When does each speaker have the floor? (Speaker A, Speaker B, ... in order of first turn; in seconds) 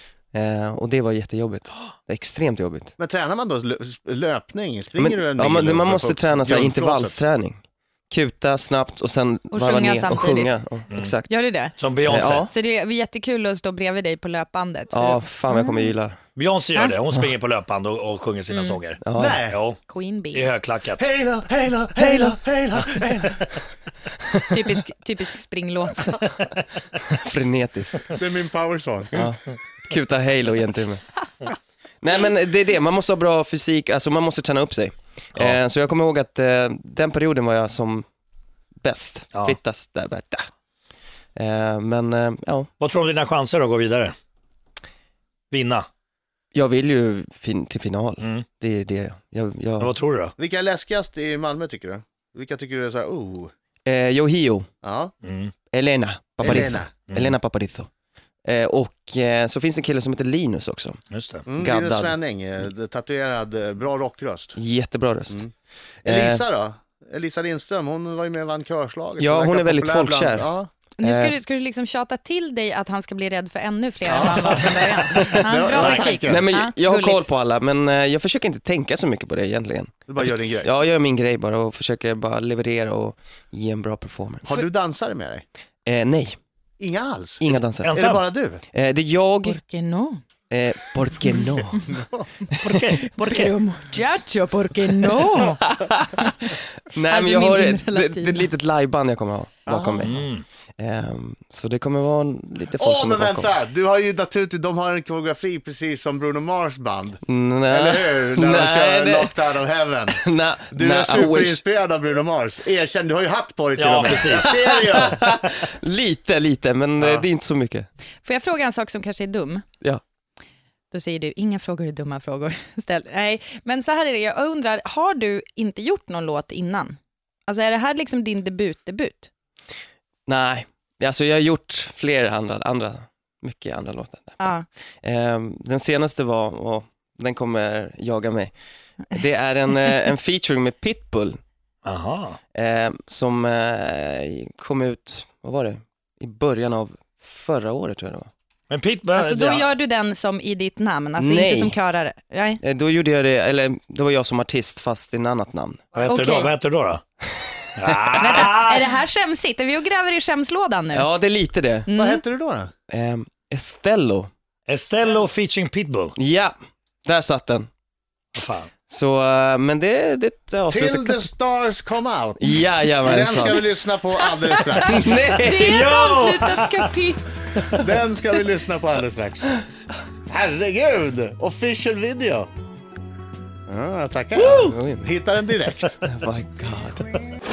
Speaker A: 0.3-2.9, 5.0-11.3, 12.0-12.5, 14.9-16.2, 19.0-19.4, 27.1-28.0, 29.1-31.0, 32.0-38.0, 38.8-40.5, 41.4-42.7, 46.5-49.9, 53.9-54.7, 55.7-57.9, 58.5-61.0, 61.6-62.2, 64.5-65.4, 66.0-66.4, 69.2-70.5, 71.0-71.3, 75.1-84.5, 85.8-86.4, 87.4-88.0, 88.7-89.6, 90.5-91.8, 95.3-96.2, 96.9-100.2, 100.8-103.5, 107.2-109.4, 110.1-111.6, 114.3-117.9, 130.3-134.5, 135.0-138.5, 139.1-141.4, 142.5-148.3, 151.2-151.8, 152.6-155.8, 160.9-161.9, 162.9-164.3, 166.2-166.5, 167.1-167.7, 168.9-171.3, 172.4-173.7, 174.8-175.9, 184.3-185.2, 186.0-187.1
Speaker B: 3.0-7.2, 19.1-19.6, 21.0-23.6, 28.1-29.3, 50.4-53.5, 54.8-55.1, 56.4-56.9, 61.5-64.6, 66.0-70.7, 74.0-76.4, 80.1-80.7, 84.4-85.4, 86.8-88.6, 91.8-92.3, 99.7-100.2, 102.7-115.3, 117.0-117.2, 161.9-162.7, 170.7-175.1, 177.7-179.5, 180.3-182.5, 183.7-186.0
Speaker C: 9.5-10.6, 11.3-11.7, 12.4-15.9, 19.9-20.4, 24.5-26.2, 71.0-77.3, 89.4-90.2, 93.0-96.3, 97.0-98.5, 118.2-119.6, 120.9-129.3, 134.4-134.7, 149.2-152.6, 156.0-156.5, 158.1-161.1, 161.9-162.2, 174.2-177.3
Speaker D: 11.8-12.5, 16.4-19.8, 20.3-21.0, 42.8-44.1, 45.5-45.9, 48.2-48.5, 49.8-50.3, 55.2-55.5, 57.1-57.4, 61.1-61.5, 75.7-76.1, 87.8-88.2, 92.6-93.5, 100.0-100.4, 113.8-114.5, 141.8-142.4, 148.7-149.6, 155.9-157.0, 157.7-158.9, 164.7-166.1, 168.3-168.7, 175.5-176.8